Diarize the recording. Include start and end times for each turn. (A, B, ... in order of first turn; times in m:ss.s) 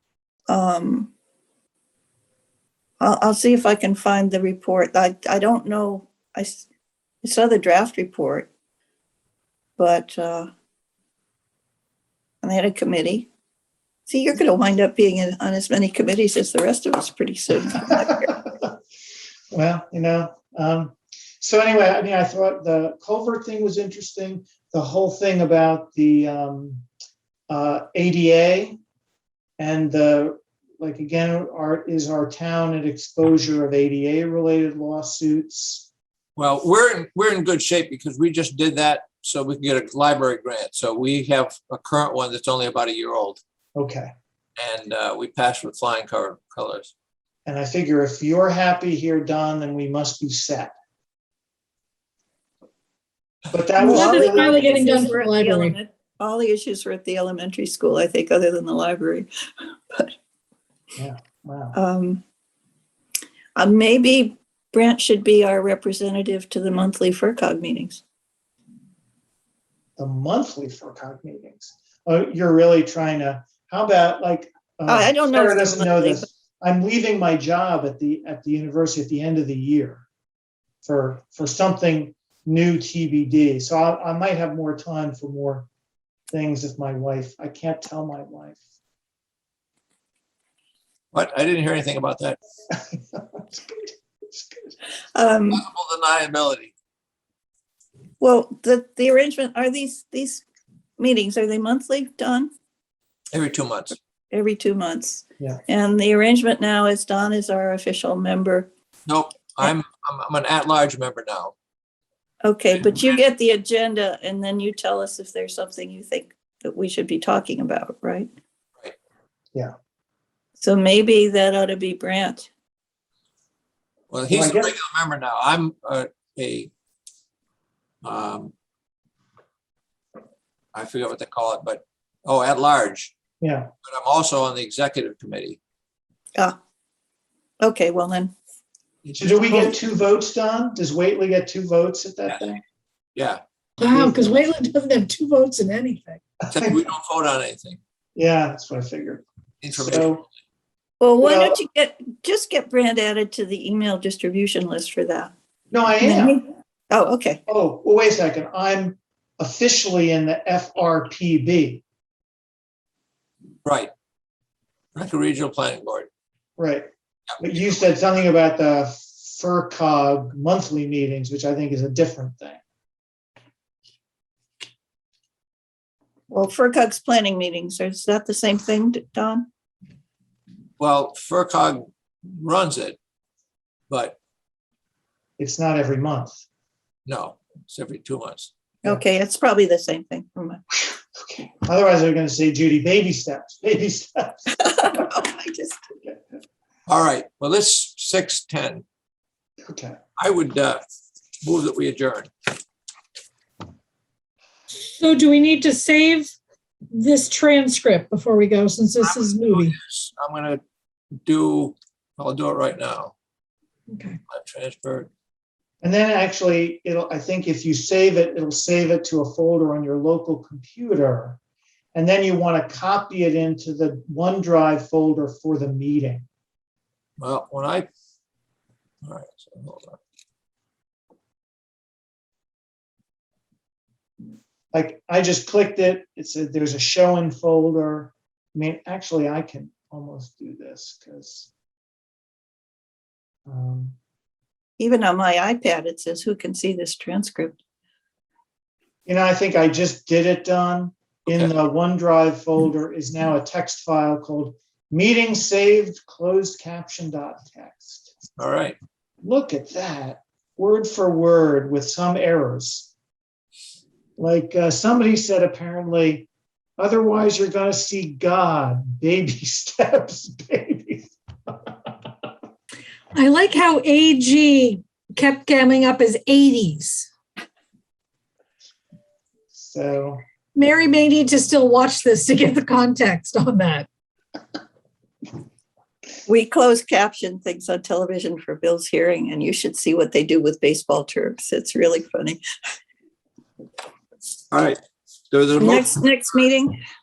0:00.5-0:01.1 A
0:03.0-0:06.7 A
0:07.2-0:08.5 A
0:09.8-0:10.5 A
0:12.4-0:13.3 A
0:14.1-0:18.3 A
0:17.9-0:18.7 B
0:19.5-0:26.8 B
0:27.5-0:28.8 B
0:29.6-0:35.9 B
0:36.4-0:43.4 C
0:43.8-0:44.1 B
0:44.6-0:46.9 C
0:47.4-0:50.7 B
0:53.5-0:54.7 B
0:53.8-0:55.7 D
0:53.8-0:59.3 A
1:01.0-1:01.8 B
1:01.7-1:02.2 A
1:03.6-1:08.0 A
1:10.0-1:20.0 B
1:14.9-1:16.3 A
1:20.8-1:25.7 B
1:26.3-1:28.6 B
1:31.1-1:32.4 C
1:32.7-1:34.7 B
1:35.1-1:35.6 A
1:35.5-1:36.7 C
1:38.2-1:40.4 A
1:41.0-1:42.5 A
1:43.3-1:44.0 C
1:44.3-1:48.7 A
1:49.1-1:51.5 C
1:52.4-1:58.3 A
1:52.8-1:53.2 C
2:00.6-2:02.5 A
2:04.1-2:06.7 C
2:04.3-2:04.7 B
2:08.0-2:08.5 C
2:10.7-2:13.1 C
2:13.4-2:13.7 B
2:13.8-2:15.6 C
2:17.6-2:18.3 A
2:19.0-2:19.7 C
2:19.2-2:22.6 B
2:23.2-2:23.4 C
2:23.8-2:26.2 D
2:23.9-2:24.4 B
2:26.4-2:26.8 B
2:26.5-2:27.8 C
2:28.1-2:30.2 B
2:29.6-2:30.3 C
2:31.0-2:35.3 A
2:31.2-2:31.6 B
2:35.7-2:36.4 B
2:36.0-2:37.4 A
2:37.5-2:41.8 B
2:43.6-2:43.9 C
2:44.9-2:46.1 C
2:46.6-2:46.9 B
2:47.4-2:52.6 B
2:56.3-2:59.5 A
3:00.8-3:03.0 C
3:03.9-3:04.2 C
3:05.4-3:06.4 B
3:07.0-3:08.5 C
3:08.8-3:10.6 A
3:10.9-3:15.0 B
3:14.6-3:15.8 A
3:16.9-3:18.8 C
3:19.7-3:20.0 B
3:20.2-3:20.8 C
3:21.4-3:22.3 C
3:24.9-3:26.3 D
3:26.9-3:29.7 D
3:29.0-3:30.6 C
3:31.2-3:33.1 C
3:33.9-3:34.2 D
3:34.3-3:35.1 C
3:35.8-3:41.4 B
3:41.9-3:46.3 B
3:47.2-3:47.9 C
3:49.0-3:50.0 C
3:54.7-4:01.5 B
4:03.5-4:04.0 B
4:04.8-4:07.6 A
4:09.0-4:18.1 B
4:18.4-4:18.8 C
4:19.2-4:22.9 B
4:24.2-4:31.9 B
4:33.1-4:37.1 D
4:39.5-4:40.2 B
4:40.6-4:43.9 D
4:46.3-4:52.4 A
4:54.5-4:54.8 C
4:55.3-4:55.9 C
4:55.6-4:56.8 A